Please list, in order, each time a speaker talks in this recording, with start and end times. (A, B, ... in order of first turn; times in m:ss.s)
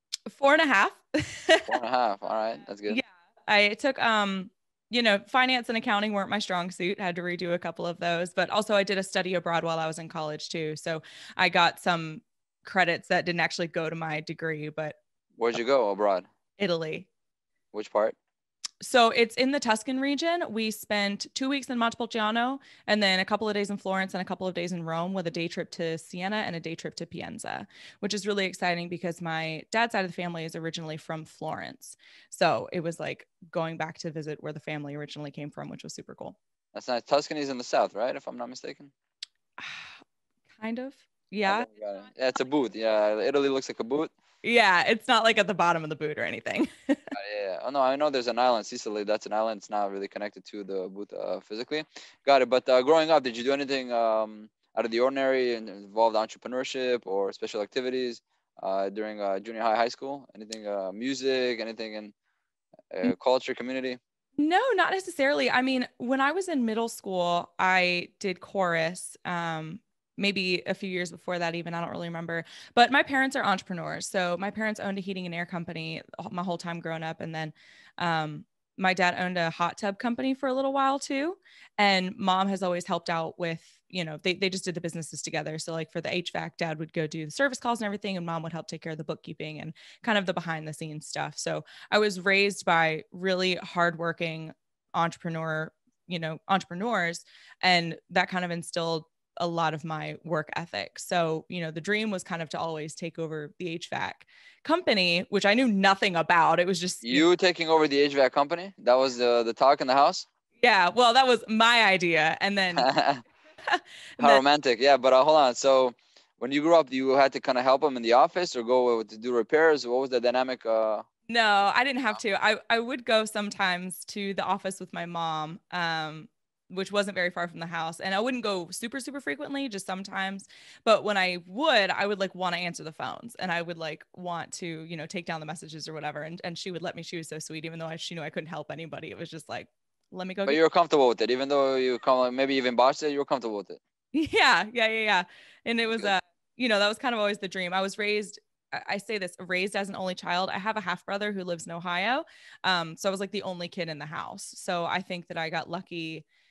0:00.3-0:01.7 A
0:01.7-0:03.0 B
0:02.9-0:15.0 A
0:15.4-0:16.2 B
0:16.6-0:17.1 A
0:17.7-0:18.2 B
0:18.8-0:36.4 A
0:36.7-0:38.9 B
0:39.6-0:40.0 A
0:40.6-0:41.7 A
0:41.4-0:44.1 B
0:44.4-0:47.1 A
0:47.1-1:02.1 B
1:02.9-1:04.0 B
1:04.4-1:47.3 A
1:47.0-1:50.3 B
1:50.6-1:52.9 A
1:52.8-1:53.2 B
1:53.7-1:54.4 A
1:54.2-2:01.1 B
2:01.3-2:20.6 A
2:20.5-2:23.8 B
2:24.1-2:36.2 A